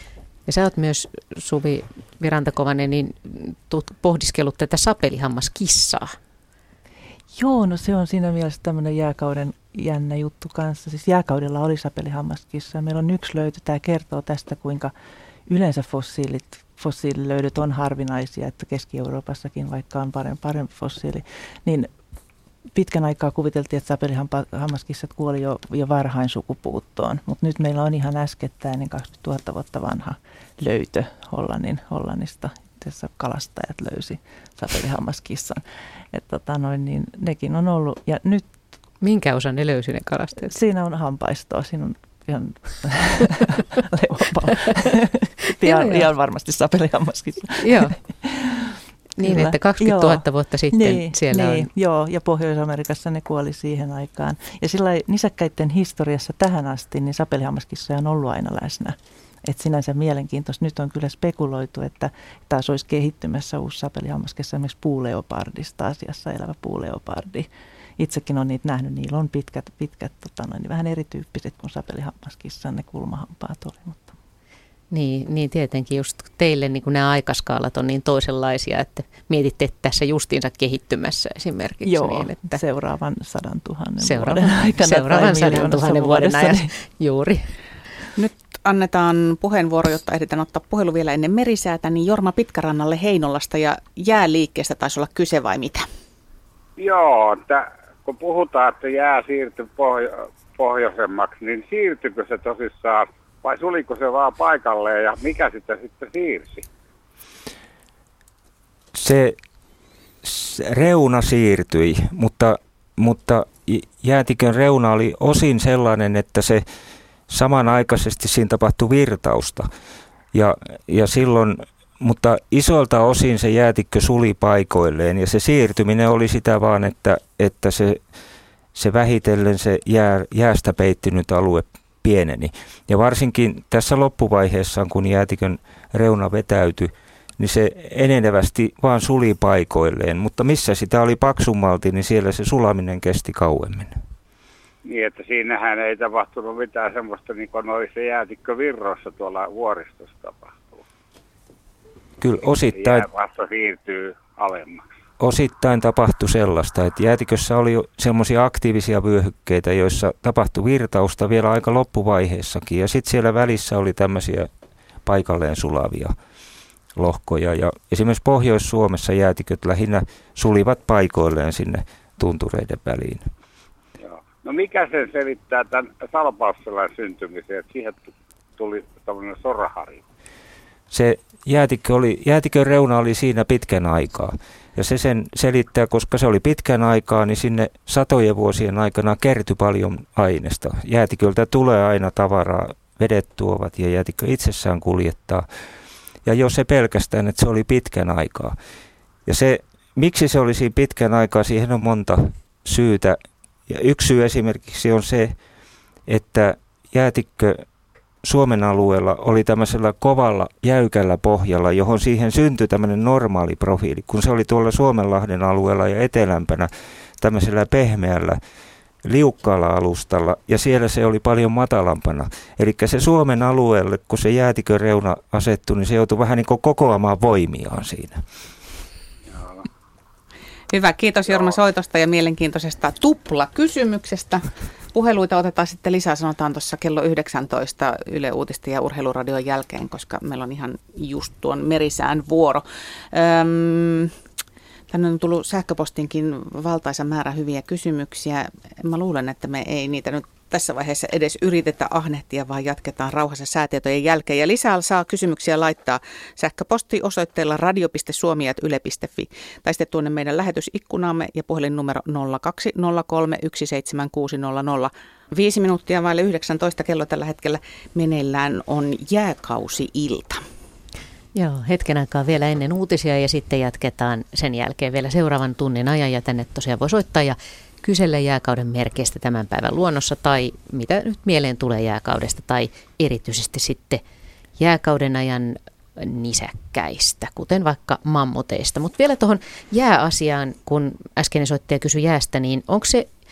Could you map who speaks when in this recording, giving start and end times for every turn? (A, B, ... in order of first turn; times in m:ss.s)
0:00.5-0:06.2 A
0:07.3-0:14.9 B
0:15.5-0:21.9 B
0:22.7-0:38.4 B
0:39.0-0:40.5 A
0:40.5-1:07.5 B
0:45.6-0:46.1 A
0:47.6-0:48.0 A
0:49.2-0:51.7 A
1:08.0-1:14.1 B
1:14.9-1:22.6 A
1:21.8-1:26.7 B
1:24.0-1:27.5 A
1:28.2-1:35.9 C
1:36.8-1:46.6 D
1:48.9-1:49.4 E
1:50.2-1:56.6 E
1:57.3-1:59.7 E
2:00.3-2:08.0 E
2:08.7-2:24.0 E
2:24.8-2:30.8 D
2:32.2-2:33.1 E
2:32.7-2:34.9 D
2:35.2-2:44.5 E
2:45.0-2:46.2 E
2:47.0-2:53.3 E
2:54.0-3:00.0 D
3:00.9-3:15.4 E
3:16.2-3:18.6 E
3:19.2-3:25.4 E
3:26.1-3:27.6 E
3:28.2-3:38.4 E
3:39.0-3:48.2 E
3:50.7-4:04.1 C
4:04.9-4:30.4 C
4:31.3-4:44.0 A
4:44.6-4:53.1 A